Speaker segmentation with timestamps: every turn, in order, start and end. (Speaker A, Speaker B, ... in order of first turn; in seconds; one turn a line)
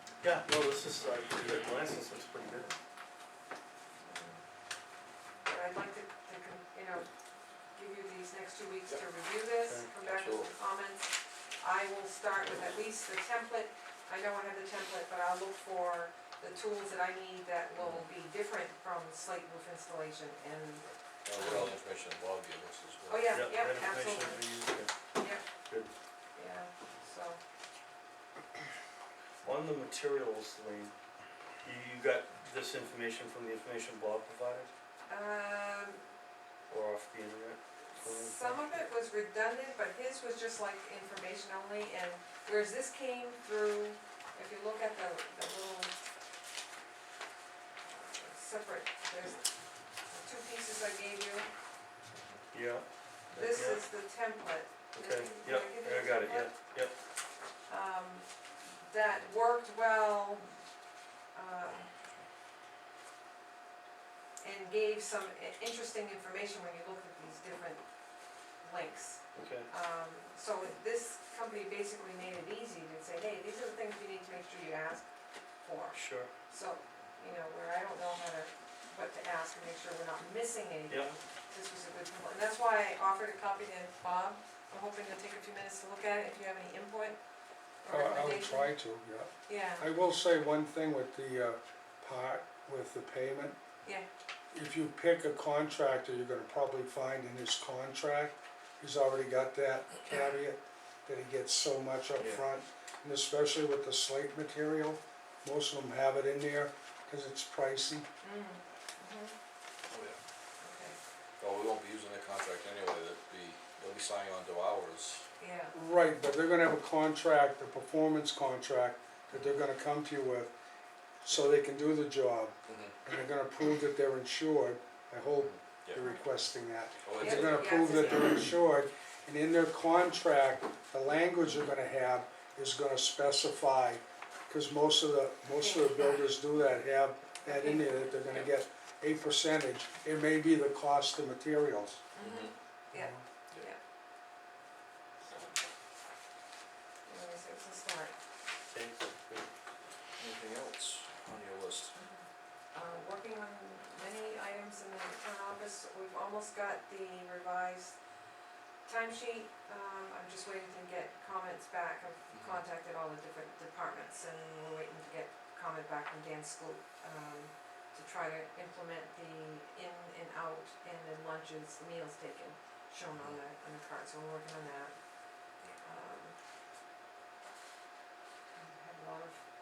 Speaker A: 0.2-2.7
Speaker B: 4.0-4.4
Speaker B: 5.4-7.1
Speaker B: 7.7-21.7
Speaker A: 9.6-9.9
Speaker C: 10.0-10.5
Speaker C: 17.8-18.1
Speaker C: 21.2-23.3
Speaker B: 23.1-24.6
Speaker A: 23.3-24.9
Speaker B: 25.1-25.4
Speaker B: 26.3-27.4
Speaker A: 29.4-30.9
Speaker A: 31.6-34.7
Speaker B: 35.1-36.0
Speaker A: 36.7-38.8
Speaker B: 37.9-45.9
Speaker B: 47.8-49.5
Speaker B: 50.1-51.5
Speaker A: 52.5-53.9
Speaker B: 53.3-56.5
Speaker A: 54.9-56.9
Speaker B: 57.7-60.5
Speaker B: 61.3-61.9
Speaker B: 64.4-67.8
Speaker B: 68.6-75.1
Speaker A: 69.3-69.7
Speaker B: 75.6-87.2
Speaker A: 75.9-76.3
Speaker B: 87.8-88.7
Speaker D: 87.9-93.5
Speaker B: 89.5-89.9
Speaker D: 94.5-108.1
Speaker A: 102.2-102.4
Speaker B: 108.2-109.3
Speaker C: 109.9-110.2
Speaker B: 110.6-111.0
Speaker C: 111.4-115.3
Speaker B: 115.4-115.7
Speaker D: 115.7-120.5
Speaker C: 119.3-119.6
Speaker D: 121.2-142.1
Speaker C: 122.7-122.9
Speaker C: 125.4-126.0
Speaker C: 127.0-127.7
Speaker B: 127.2-128.4
Speaker B: 135.5-136.3
Speaker B: 137.4-138.2
Speaker B: 142.1-143.8
Speaker C: 142.2-142.5
Speaker D: 142.9-143.2
Speaker B: 147.1-148.1
Speaker A: 148.7-149.5
Speaker C: 150.2-151.9
Speaker B: 151.9-157.9
Speaker B: 158.8-174.9
Speaker C: 162.3-162.6
Speaker C: 173.1-173.4
Speaker B: 175.6-176.3
Speaker B: 178.5-179.4